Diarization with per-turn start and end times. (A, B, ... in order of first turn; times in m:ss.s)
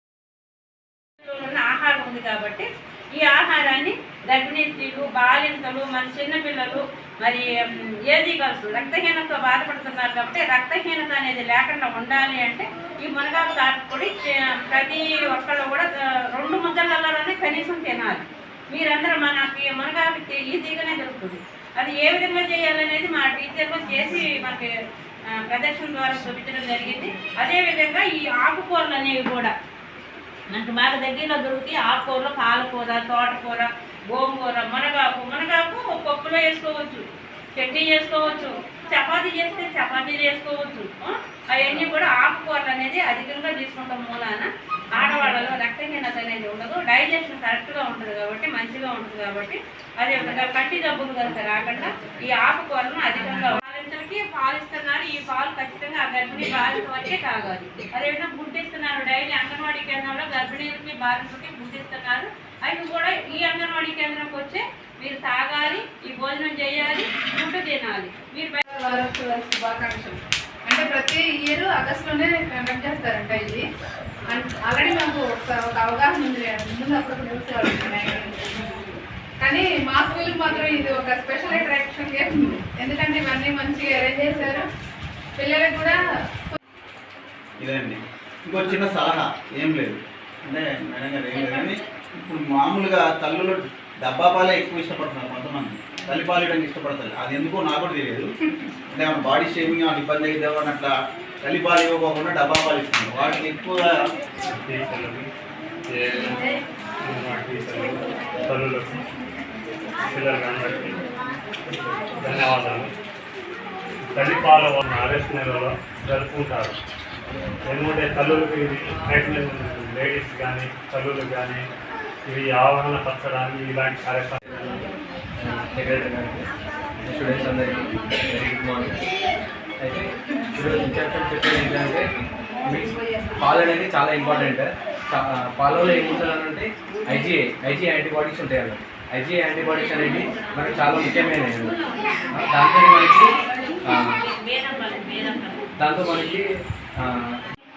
0:01.2-0:07.5 A
0:08.1-0:24.7 A
0:25.5-0:29.5 A
0:30.5-0:37.0 A
0:37.6-1:08.6 A
1:08.7-1:13.6 B
1:14.3-1:18.8 B
1:19.4-1:24.7 B
1:25.4-1:26.6 B
1:27.6-1:38.3 C
1:38.9-1:40.9 C
1:41.4-1:44.0 C
1:44.6-1:45.3 D
1:45.9-1:46.5 D
1:47.0-1:49.1 D
1:50.0-1:51.0 D
1:51.7-1:52.9 D
1:54.1-1:56.8 D
1:57.7-2:01.6 D
2:02.3-2:04.9 D
2:05.4-2:06.4 E
2:07.1-2:07.7 E
2:08.3-2:08.8 E
2:08.4-2:08.9 C
2:10.6-2:12.0 E
2:13.4-2:16.6 E
2:16.6-2:17.7 C
2:17.2-2:21.7 E
2:19.8-2:20.8 A
2:22.5-2:23.2 C
2:23.9-2:25.7 A
2:25.8-2:26.4 C